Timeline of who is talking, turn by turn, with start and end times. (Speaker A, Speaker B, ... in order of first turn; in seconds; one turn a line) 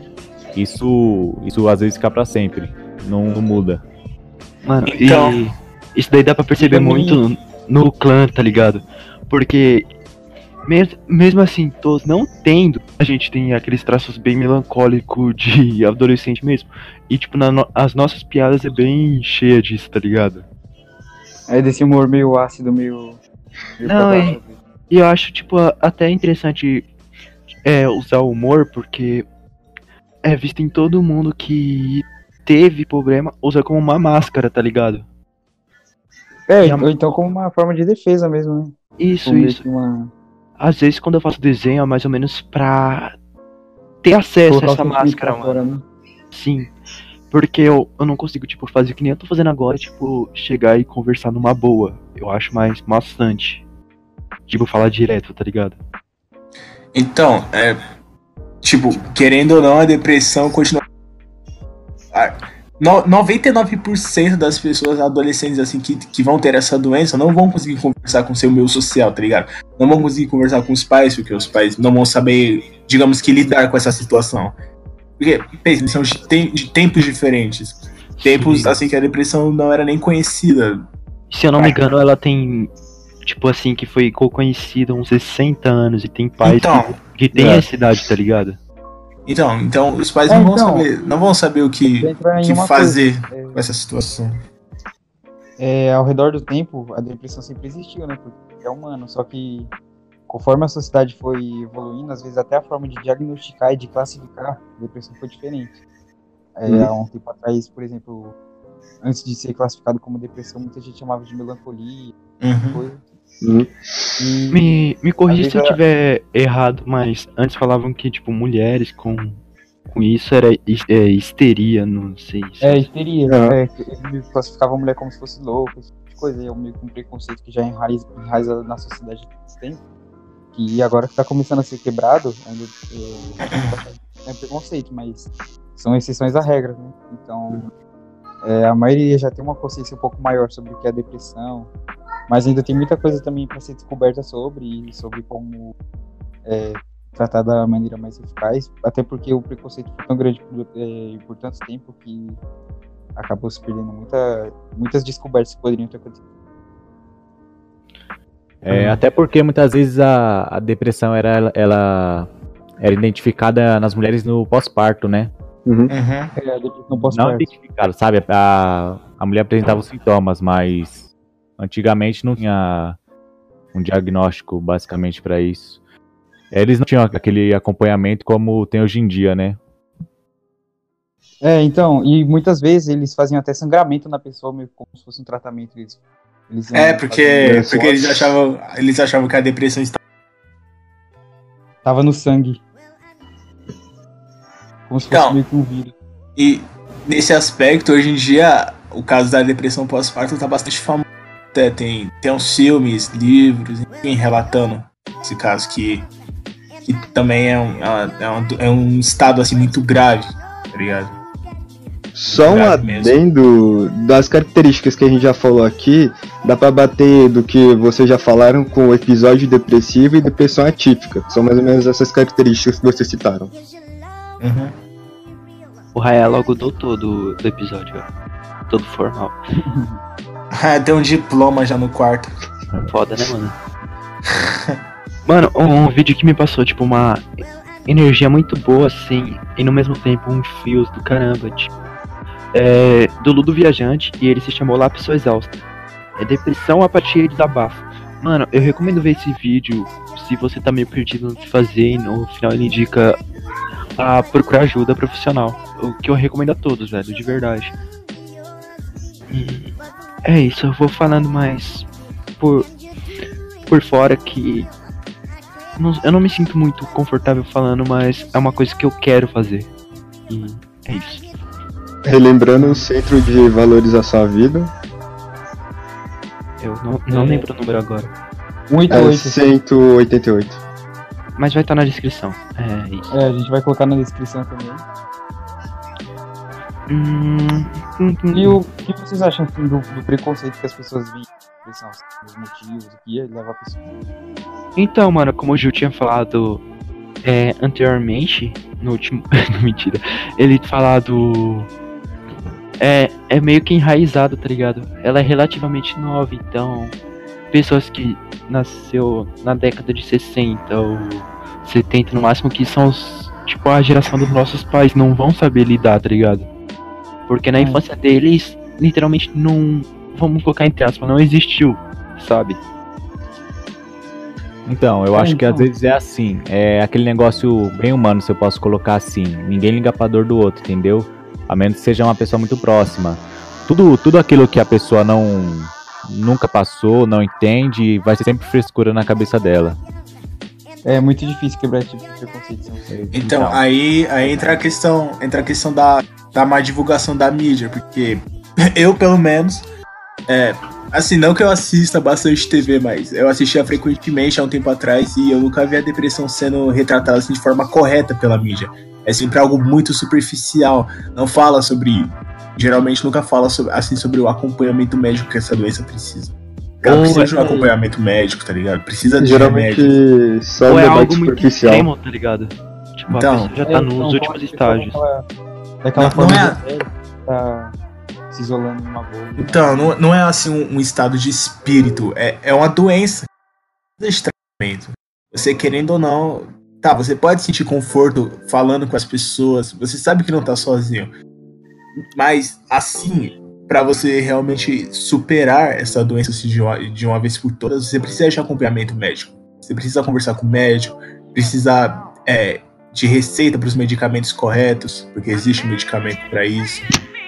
Speaker A: 0.5-3.8
Speaker B: 4.6-9.8
Speaker C: 4.8-5.4
Speaker D: 6.6-7.2
Speaker B: 10.7-20.5
Speaker D: 21.5-23.2
Speaker D: 23.8-24.6
Speaker B: 23.8-24.4
Speaker B: 24.9-26.9
Speaker B: 27.6-29.2
Speaker B: 30.2-35.0
Speaker D: 36.5-40.1
Speaker B: 36.6-36.9
Speaker B: 39.0-39.6
Speaker B: 40.6-43.1
Speaker B: 44.0-45.6
Speaker D: 44.5-45.8
Speaker B: 46.3-46.7
Speaker B: 47.3-53.6
Speaker B: 54.5-55.8
Speaker C: 56.9-57.8
Speaker C: 58.6-60.8
Speaker C: 62.1-74.5
Speaker C: 75.2-80.8
Speaker B: 78.3-78.8
Speaker B: 81.3-82.7
Speaker B: 83.2-88.6
Speaker C: 86.4-86.9
Speaker C: 89.2-94.4
Speaker D: 90.3-90.9
Speaker D: 92.0-93.6
Speaker D: 95.6-99.7
Speaker D: 100.3-105.8
Speaker D: 106.5-108.3
Speaker D: 109.0-112.1
Speaker C: 112.4-112.8
Speaker D: 112.7-113.0
Speaker E: 113.4-114.2
Speaker D: 114.2-114.6
Speaker B: 114.5-122.9
Speaker D: 115.3-115.8
Speaker D: 122.6-129.8
Speaker E: 123.3-123.6
Speaker D: 130.5-137.7
Speaker D: 138.4-141.7
Speaker D: 142.3-145.7
Speaker D: 146.4-152.4
Speaker D: 153.2-156.2
Speaker A: 158.6-162.3
Speaker A: 162.8-165.3
Speaker E: 165.7-165.9
Speaker C: 165.9-166.3
Speaker D: 166.3-167.5
Speaker A: 167.1-173.0
Speaker A: 173.7-175.8
Speaker A: 176.5-179.6
Speaker D: 181.4-187.9
Speaker C: 186.7-190.0
Speaker E: 187.4-187.8
Speaker D: 191.8-192.6
Speaker D: 194.9-195.9
Speaker C: 195.1-195.4
Speaker C: 196.4-206.1
Speaker C: 206.8-211.1
Speaker E: 212.1-223.5
Speaker C: 212.3-213.2
Speaker C: 224.4-224.7
Speaker B: 225.9-228.1
Speaker B: 228.7-229.4
Speaker D: 229.7-230.0
Speaker C: 230.5-232.3
Speaker B: 232.9-233.5
Speaker C: 234.4-234.7
Speaker B: 235.2-237.3
Speaker B: 237.8-241.7
Speaker B: 242.5-245.6
Speaker B: 246.2-253.2
Speaker B: 254.0-257.7
Speaker B: 259.3-261.9
Speaker B: 262.4-262.7
Speaker B: 263.7-264.7
Speaker B: 265.8-269.7
Speaker B: 270.3-271.3
Speaker E: 272.0-274.7
Speaker B: 276.6-278.1
Speaker D: 277.1-277.4
Speaker D: 278.7-279.4
Speaker E: 278.9-280.6
Speaker B: 281.4-283.1
Speaker D: 283.1-284.8
Speaker B: 286.9-288.6
Speaker D: 288.3-293.9
Speaker B: 294.8-296.6
Speaker B: 297.2-301.7
Speaker B: 302.8-306.9
Speaker B: 307.5-316.5
Speaker B: 317.3-322.6
Speaker A: 324.6-339.8
Speaker D: 325.1-325.7
Speaker D: 340.8-343.5
Speaker A: 343.1-343.6
Speaker C: 343.1-349.6
Speaker D: 344.2-344.6
Speaker C: 350.3-370.0
Speaker B: 366.9-367.3
Speaker D: 367.0-367.7
Speaker E: 369.2-371.9
Speaker B: 370.6-375.0
Speaker C: 373.1-373.6
Speaker D: 373.6-375.2
Speaker D: 375.8-377.8
Speaker C: 375.9-376.6
Speaker D: 378.3-379.9
Speaker C: 379.4-383.3
Speaker C: 384.0-391.1
Speaker C: 392.1-406.9